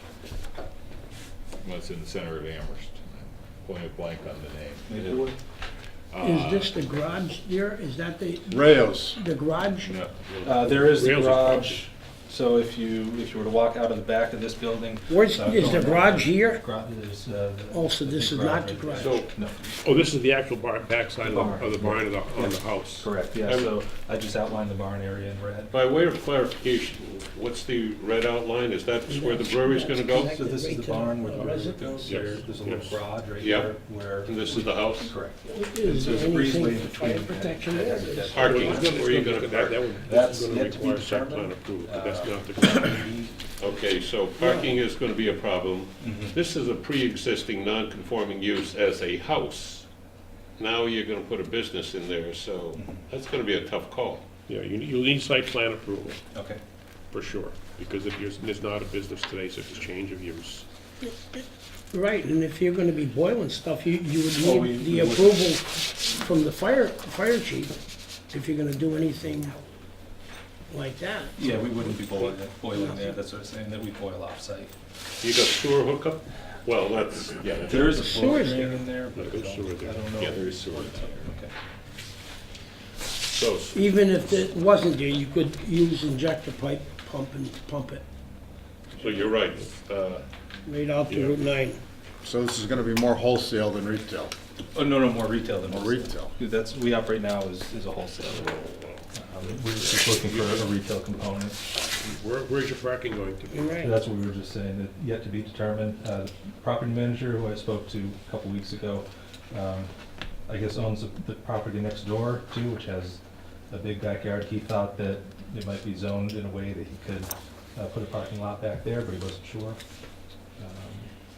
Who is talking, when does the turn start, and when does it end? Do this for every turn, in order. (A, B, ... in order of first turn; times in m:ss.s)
0:01.6-0:05.3 A
0:04.9-0:05.4 B
0:06.1-0:07.1 A
0:06.2-0:10.0 C
0:08.5-0:09.2 D
0:09.8-0:10.3 A
0:10.4-0:19.7 B
0:10.5-0:11.9 E
0:15.1-0:16.7 C
0:17.7-0:19.2 C
0:19.0-0:19.3 F
0:19.8-0:23.1 E
0:21.2-0:25.7 B
0:23.4-0:23.8 F
0:25.7-0:30.3 F
0:29.0-0:32.4 C
0:30.3-0:39.0 B
0:32.0-0:33.0 E
0:33.4-0:35.2 F
0:35.4-0:38.4 C
0:38.3-0:39.8 F
0:38.4-0:43.2 E
0:40.0-0:43.4 B
0:43.6-0:49.9 F
0:44.4-0:44.7 C
0:46.0-0:46.4 B
0:50.6-0:54.2 F
0:52.8-0:53.1 B
0:54.5-0:56.2 E
0:56.3-0:56.6 B
0:57.1-1:00.7 E
1:01.0-1:07.8 C
1:04.4-1:05.4 B
1:08.3-1:09.6 C
1:10.7-1:11.8 C
1:11.4-1:14.7 B
1:12.8-1:13.2 C
1:15.2-1:18.3 F
1:17.6-1:21.5 B
1:17.9-1:18.8 C
1:19.1-1:20.1 E
1:20.2-1:20.9 F
1:23.3-1:23.8 F
1:23.7-1:28.0 C
1:29.0-1:30.3 F
1:30.6-1:31.8 C
1:31.1-1:31.4 E
1:32.2-1:34.3 D
1:34.7-1:38.6 B
1:35.7-1:36.3 D
1:39.1-1:41.6 B
1:40.3-1:40.6 E
1:42.0-1:43.8 E
1:43.5-1:44.0 C
1:43.8-1:49.9 B
1:50.5-1:59.8 B
2:00.6-2:01.1 B